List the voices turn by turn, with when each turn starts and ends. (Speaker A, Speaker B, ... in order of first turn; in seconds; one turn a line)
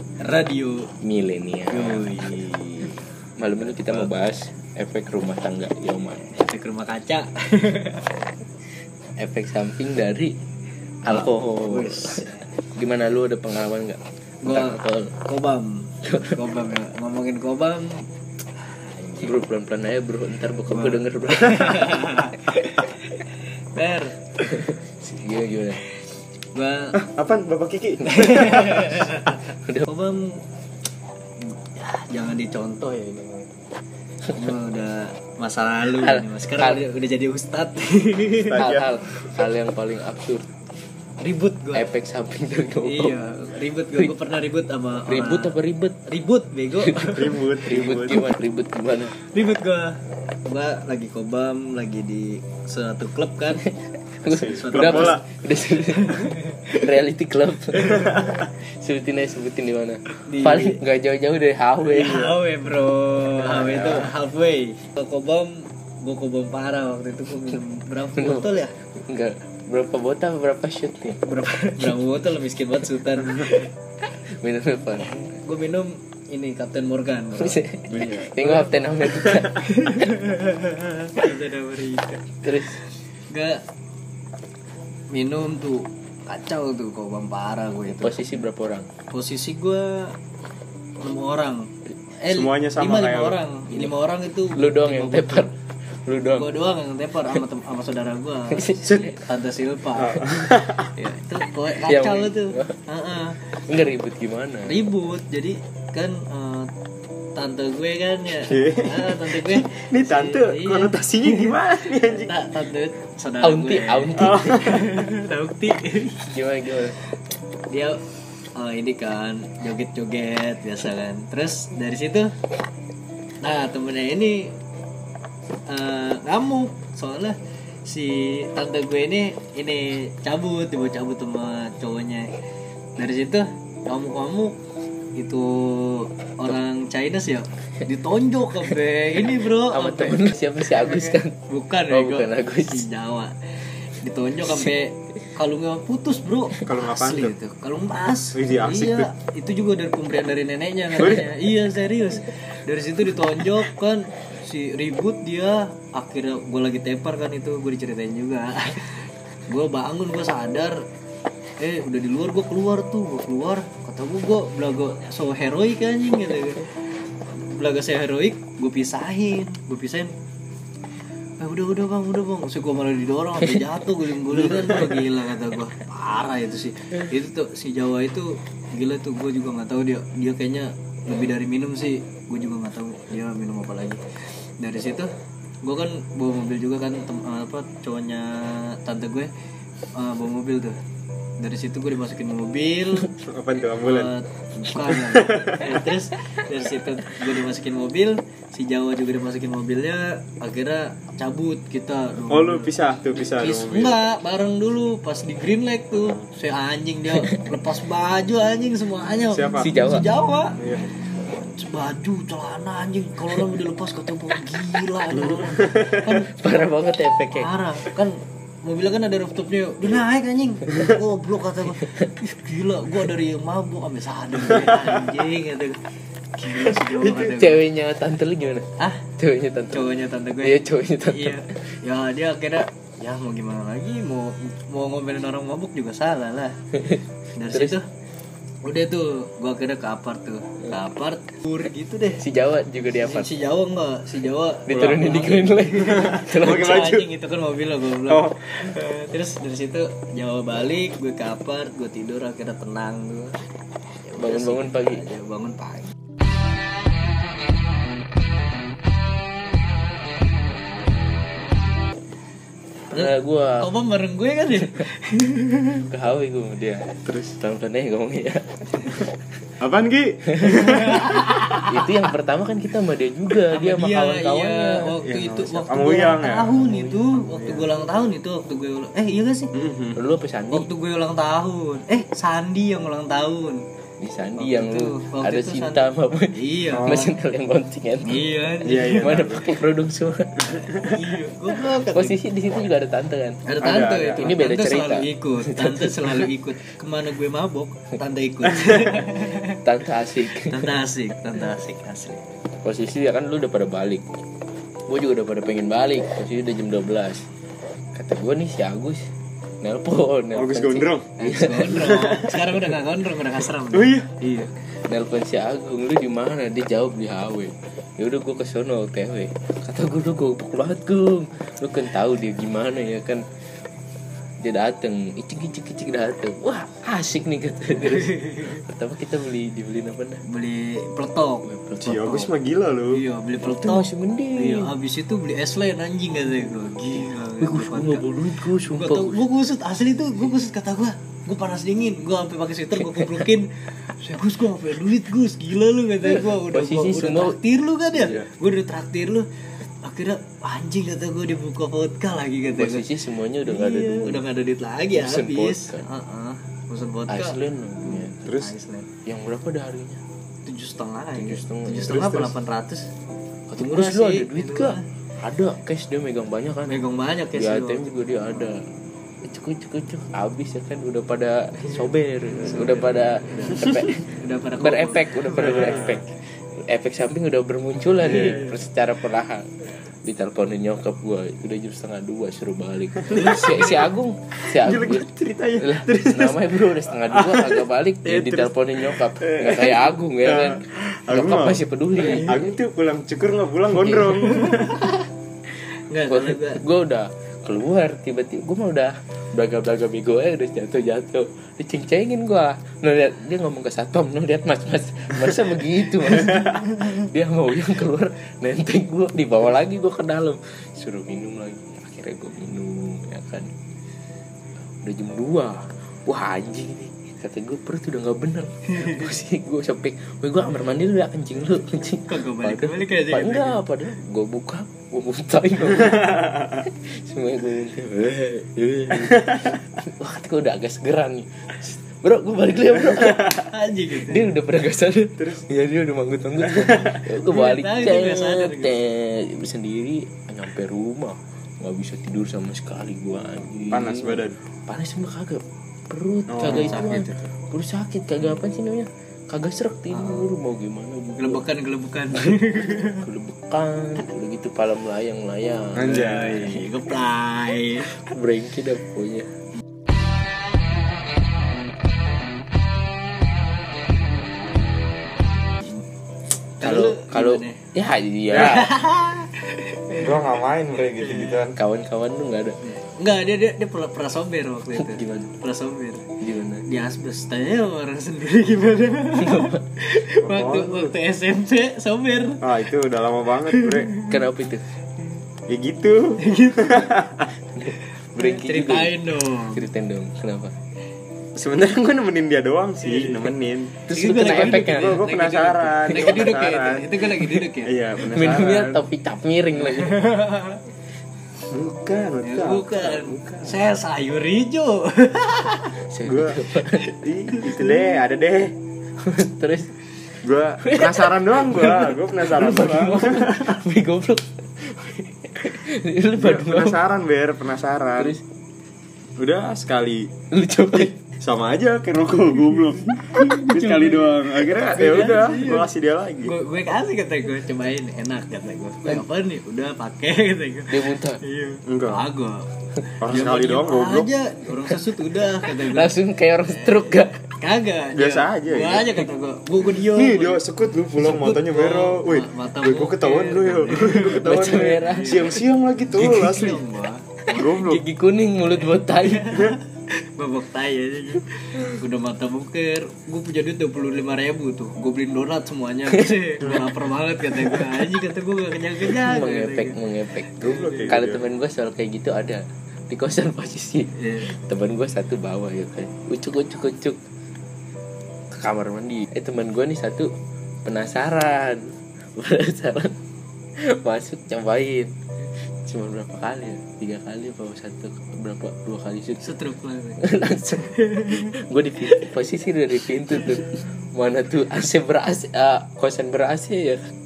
Speaker A: 0.2-0.9
Speaker B: 1.0-2.1
Speaker A: 1.7-3.0
Speaker B: 3.4-6.3
Speaker A: 6.3-8.1
Speaker B: 9.2-10.3
Speaker B: 11.1-12.2
Speaker A: 11.1-12.4
Speaker B: 12.8-15.1
Speaker A: 14.4-18.1
Speaker B: 16.0-16.4
Speaker A: 18.7-19.4
Speaker B: 19.2-22.1
Speaker A: 20.7-24.6
Speaker B: 24.5-25.8
Speaker A: 26.5-26.9
Speaker C: 27.0-28.9
Speaker A: 28.1-30.4
Speaker B: 29.3-29.9
Speaker A: 31.7-33.5
Speaker A: 34.3-38.7
Speaker B: 35.9-36.8
Speaker C: 38.5-38.9
Speaker B: 38.5-40.4
Speaker A: 41.2-41.9
Speaker B: 41.7-43.2
Speaker A: 42.8-47.4
Speaker B: 45.1-46.0
Speaker B: 46.8-49.1
Speaker C: 47.1-48.3
Speaker A: 49.2-53.6
Speaker B: 53.5-62.4
Speaker A: 54.2-55.2
Speaker C: 54.4-55.3
Speaker A: 55.9-56.9
Speaker A: 57.7-58.5
Speaker C: 57.9-58.4
Speaker A: 60.2-60.8
Speaker A: 61.8-68.7
Speaker B: 63.5-64.1
Speaker B: 68.2-68.5
Speaker B: 69.1-71.2
Speaker A: 71.2-73.7
Speaker B: 72.9-73.3
Speaker B: 74.4-75.2
Speaker A: 75.1-82.4
Speaker B: 77.4-80.2
Speaker B: 82.4-82.8
Speaker A: 83.3-83.6
Speaker A: 85.1-88.4
Speaker B: 87.9-88.9
Speaker A: 89.1-90.1
Speaker A: 91.0-91.7
Speaker A: 92.2-95.5
Speaker C: 92.3-93.4
Speaker B: 94.5-95.5
Speaker B: 96.0-96.5
Speaker A: 96.3-100.4
Speaker B: 98.5-99.2
Speaker C: 99.9-100.9
Speaker A: 101.0-103.4
Speaker B: 101.8-102.8
Speaker B: 103.7-104.9
Speaker A: 104.6-106.7
Speaker A: 107.3-111.6
Speaker C: 108.4-112.4
Speaker A: 112.1-116.3
Speaker B: 113.4-114.8
Speaker C: 114.1-115.0
Speaker B: 116.3-117.0
Speaker A: 117.7-118.0
Speaker A: 118.5-122.3
Speaker A: 123.4-124.5
Speaker A: 125.7-132.3
Speaker A: 133.0-134.6
Speaker A: 135.2-143.3
Speaker B: 139.6-141.3
Speaker B: 141.9-142.8
Speaker A: 144.0-159.0
Speaker B: 144.4-144.7
Speaker C: 146.6-147.4
Speaker C: 148.3-149.1
Speaker C: 151.0-151.3
Speaker A: 159.5-160.8
Speaker A: 161.6-166.6
Speaker A: 167.4-170.1
Speaker A: 171.4-184.0
Speaker B: 173.4-173.7
Speaker A: 184.6-185.1
Speaker A: 185.6-189.3
Speaker A: 189.9-190.8
Speaker A: 191.4-193.1
Speaker C: 193.2-194.1
Speaker A: 193.8-216.4
Speaker C: 194.8-195.8
Speaker C: 202.3-204.0
Speaker B: 207.1-207.4
Speaker C: 209.3-209.8
Speaker B: 209.6-210.1
Speaker C: 210.6-210.8
Speaker C: 215.1-216.1
Speaker B: 216.3-217.5
Speaker A: 217.3-225.8
Speaker A: 226.4-227.6
Speaker B: 227.0-228.7
Speaker A: 228.8-229.1
Speaker B: 229.2-231.4
Speaker A: 229.7-236.5
Speaker B: 236.7-237.8
Speaker A: 237.4-237.8
Speaker A: 238.6-242.2
Speaker B: 242.2-243.3
Speaker A: 243.0-253.4
Speaker B: 244.7-246.9
Speaker C: 244.7-245.1
Speaker C: 245.8-247.1
Speaker C: 248.0-248.4
Speaker A: 254.0-255.9
Speaker B: 254.2-255.0
Speaker B: 262.9-263.7
Speaker A: 262.9-265.9
Speaker B: 265.9-268.9
Speaker C: 267.0-267.4
Speaker C: 269.6-271.4
Speaker A: 270.5-271.8
Speaker B: 271.7-274.9
Speaker A: 273.5-279.5
Speaker C: 275.0-277.7
Speaker C: 279.5-280.0
Speaker B: 279.9-280.7
Speaker A: 280.5-283.6
Speaker B: 284.0-290.3
Speaker A: 284.4-287.1
Speaker C: 286.7-287.1
Speaker A: 288.0-289.2
Speaker C: 288.6-289.5
Speaker C: 290.5-291.0
Speaker A: 290.8-292.2
Speaker B: 291.8-293.4
Speaker A: 293.4-299.6
Speaker C: 293.6-294.3
Speaker B: 294.1-296.3
Speaker C: 298.5-298.9
Speaker B: 299.6-300.8
Speaker A: 300.4-302.3
Speaker B: 302.6-304.0
Speaker B: 304.9-307.2
Speaker B: 307.9-309.1
Speaker B: 309.6-311.8
Speaker C: 310.3-311.2
Speaker A: 311.2-314.5
Speaker C: 311.7-312.4
Speaker C: 313.7-314.2
Speaker B: 314.9-323.2
Speaker B: 324.4-330.2
Speaker A: 327.7-328.6
Speaker A: 330.3-332.3
Speaker B: 331.4-332.1
Speaker C: 331.8-333.0
Speaker A: 332.9-338.1
Speaker B: 333.4-334.7
Speaker B: 337.4-339.2
Speaker A: 338.6-349.2
Speaker B: 346.0-347.4
Speaker B: 347.9-348.2
Speaker A: 349.8-352.9
Speaker B: 352.6-354.2
Speaker A: 353.4-358.9
Speaker B: 354.9-355.8
Speaker B: 357.1-358.2
Speaker C: 358.2-358.5
Speaker B: 359.1-360.0
Speaker A: 360.4-362.9
Speaker B: 361.1-362.3
Speaker B: 363.5-366.8
Speaker A: 363.6-364.8
Speaker A: 366.6-368.5
Speaker B: 367.3-368.6
Speaker B: 369.2-374.1
Speaker A: 371.6-376.0
Speaker B: 374.6-379.4
Speaker C: 375.4-376.0
Speaker A: 378.0-378.6
Speaker C: 378.1-378.4
Speaker B: 380.0-385.1
Speaker C: 383.0-383.9
Speaker A: 383.1-383.8
Speaker C: 384.5-394.9
Speaker B: 385.6-392.5
Speaker A: 392.0-392.5
Speaker B: 393.7-394.4
Speaker A: 394.2-394.9
Speaker A: 395.9-396.6
Speaker B: 396.1-413.5
Speaker B: 414.8-433.4
Speaker A: 418.7-419.1
Speaker A: 422.1-423.6
Speaker C: 425.9-426.5
Speaker A: 433.5-434.3
Speaker B: 434.0-451.4
Speaker C: 435.2-435.5
Speaker C: 436.5-437.0
Speaker A: 437.2-438.8
Speaker C: 443.7-444.4
Speaker C: 446.3-446.8
Speaker A: 446.4-447.3
Speaker A: 449.9-450.3
Speaker A: 451.2-453.1
Speaker B: 452.5-456.1
Speaker C: 455.7-456.5
Speaker A: 455.8-457.9
Speaker B: 458.0-459.3
Speaker A: 466.6-467.6
Speaker B: 466.6-468.8
Speaker A: 468.3-470.2
Speaker C: 469.9-471.6
Speaker A: 470.9-471.4
Speaker B: 471.5-472.6
Speaker A: 472.6-476.1
Speaker B: 474.7-475.3
Speaker B: 476.2-476.6
Speaker A: 476.6-482.4
Speaker B: 479.2-479.6
Speaker C: 480.2-480.9
Speaker C: 482.4-483.9
Speaker A: 483.5-484.2
Speaker B: 484.0-484.6
Speaker C: 485.5-487.3
Speaker A: 486.2-486.8
Speaker B: 487.6-490.5
Speaker A: 488.1-489.6
Speaker C: 491.4-493.8
Speaker A: 492.8-493.2
Speaker B: 493.9-495.1
Speaker A: 493.9-497.7
Speaker C: 494.6-497.0
Speaker B: 495.9-496.2
Speaker C: 497.6-498.8
Speaker B: 498.0-500.1
Speaker A: 499.6-500.6
Speaker C: 501.5-503.6
Speaker A: 502.2-505.8
Speaker B: 505.8-506.9
Speaker C: 506.0-506.4
Speaker A: 506.6-507.8
Speaker C: 507.0-508.5
Speaker B: 509.0-509.7
Speaker C: 510.2-513.6
Speaker B: 510.6-516.8
Speaker C: 516.1-518.1
Speaker B: 518.0-518.2
Speaker C: 519.2-520.1
Speaker B: 520.3-521.0
Speaker C: 520.9-526.3
Speaker A: 523.1-523.7
Speaker B: 523.1-524.3
Speaker A: 524.6-525.7
Speaker A: 526.2-532.5
Speaker B: 530.7-531.2
Speaker C: 531.6-532.1
Speaker C: 533.0-534.1
Speaker A: 533.0-540.4
Speaker B: 535.5-537.2
Speaker C: 537.9-539.0
Speaker C: 539.8-546.6
Speaker A: 541.0-547.0
Speaker B: 544.0-545.3
Speaker C: 547.3-547.8
Speaker B: 547.3-549.4
Speaker A: 548.7-559.8
Speaker C: 556.4-556.6
Speaker B: 557.3-557.9
Speaker B: 558.8-567.0
Speaker A: 560.4-561.0
Speaker C: 560.4-561.2
Speaker A: 563.9-564.3
Speaker B: 568.3-570.1
Speaker B: 570.6-572.9
Speaker B: 573.8-574.9
Speaker B: 575.6-579.2
Speaker A: 579.2-580.0
Speaker B: 580.0-586.8
Speaker A: 580.6-581.3